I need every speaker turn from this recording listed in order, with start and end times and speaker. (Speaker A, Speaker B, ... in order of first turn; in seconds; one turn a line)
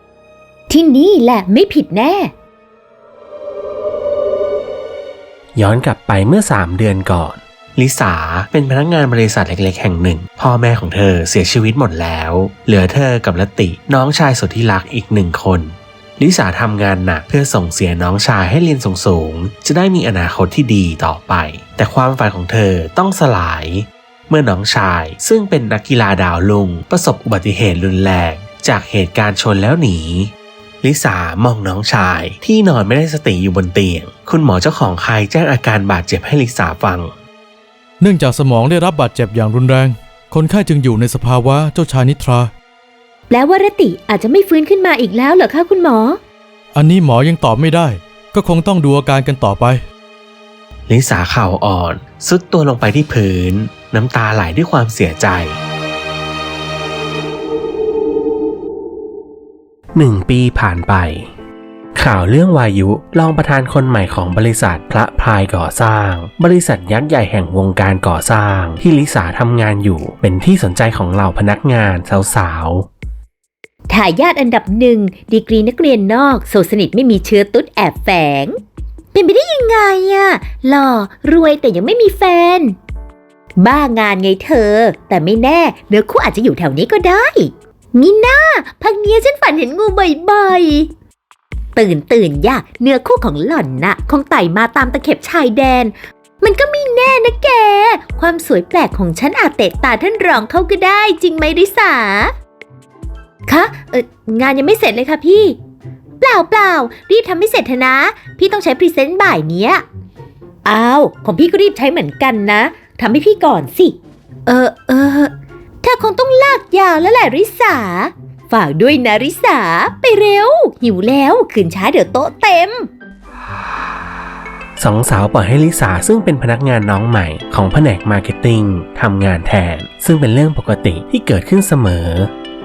Speaker A: 0.7-2.3
Speaker B: 5.5-37.1
Speaker C: 38.0-42.5
Speaker A: 43.3-46.2
Speaker C: 46.7-49.8
Speaker B: 50.9-55.6
Speaker B: 59.9-61.3
Speaker B: 62.0-72.9
Speaker A: 73.9-78.5
Speaker A: 79.1-82.8
Speaker A: 83.6-90.9
Speaker A: 91.7-102.3
Speaker A: 103.5-105.6
Speaker A: 106.2-109.8
Speaker A: 110.6-122.9
Speaker B: 124.8-132.3